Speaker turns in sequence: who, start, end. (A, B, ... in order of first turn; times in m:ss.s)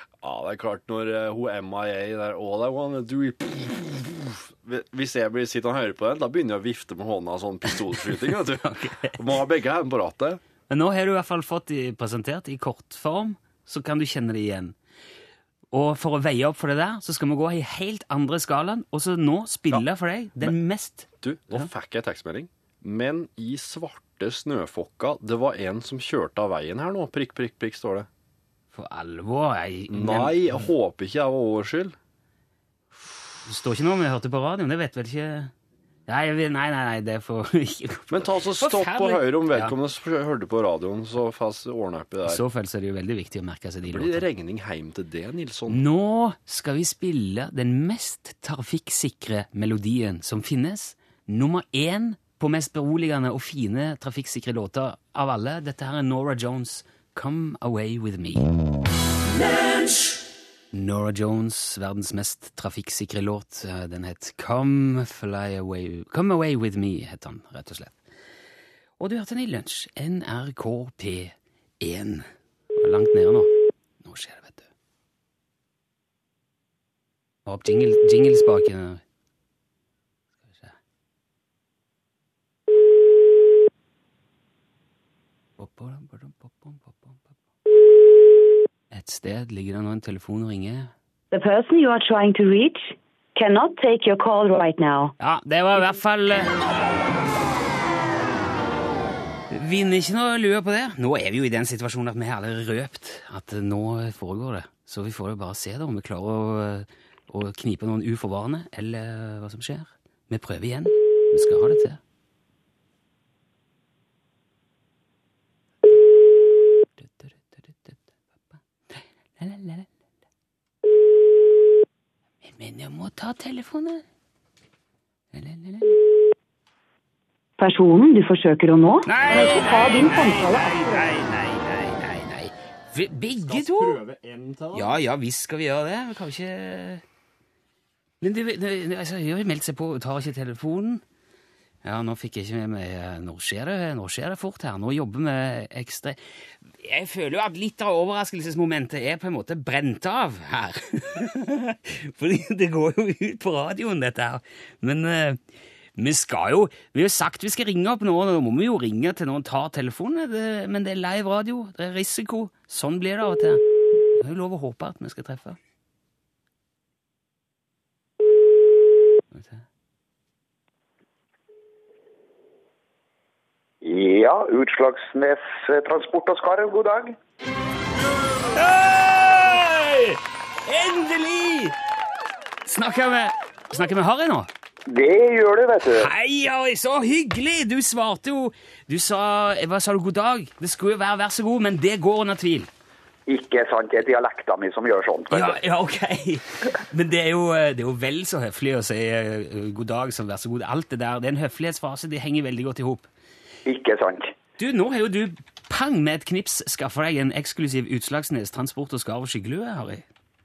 0:00.2-0:10.4 A
0:08.5-0:09.2 B
0:10.7-0:14.7 B
0:15.7-0:21.7 B
0:21.2-0:28.1 A
0:28.7-0:30.5 B
0:29.9-0:32.0 A
0:33.4-0:35.5 B
0:36.1-0:39.7 B
0:38.1-0:42.4 A
0:42.2-0:44.2 B
0:43.8-0:45.8 A
0:45.7-0:58.5 B
1:00.7-1:08.0 B
1:09.0-1:14.7 B
1:17.4-1:19.0 B
1:20.4-1:20.7 B
1:25.6-1:27.2 B
1:28.9-1:30.9 B
1:31.3-1:35.1 C
1:35.2-1:36.6 B
1:39.5-1:52.0 B
1:57.0-1:58.0 B
1:59.4-1:59.9 B
2:02.4-2:04.0 B
2:05.3-2:06.0 B
2:07.6-2:11.1 C
2:09.0-2:14.0 B
2:13.5-2:15.0 A
2:14.7-2:17.0 B
2:18.2-2:21.0 B
2:21.8-2:26.2 B
2:26.7-2:35.4 B
2:36.0-2:43.6 B
2:44.1-2:45.6 B
2:49.3-2:49.6 B
2:53.8-2:57.2 D
2:58.5-3:01.7 B
3:02.6-3:04.5 B
3:04.9-3:06.1 D
3:05.9-3:12.7 B
3:13.3-3:15.6 D
3:15.3-3:23.1 B
3:23.6-3:24.3 D
3:24.6-3:30.0 B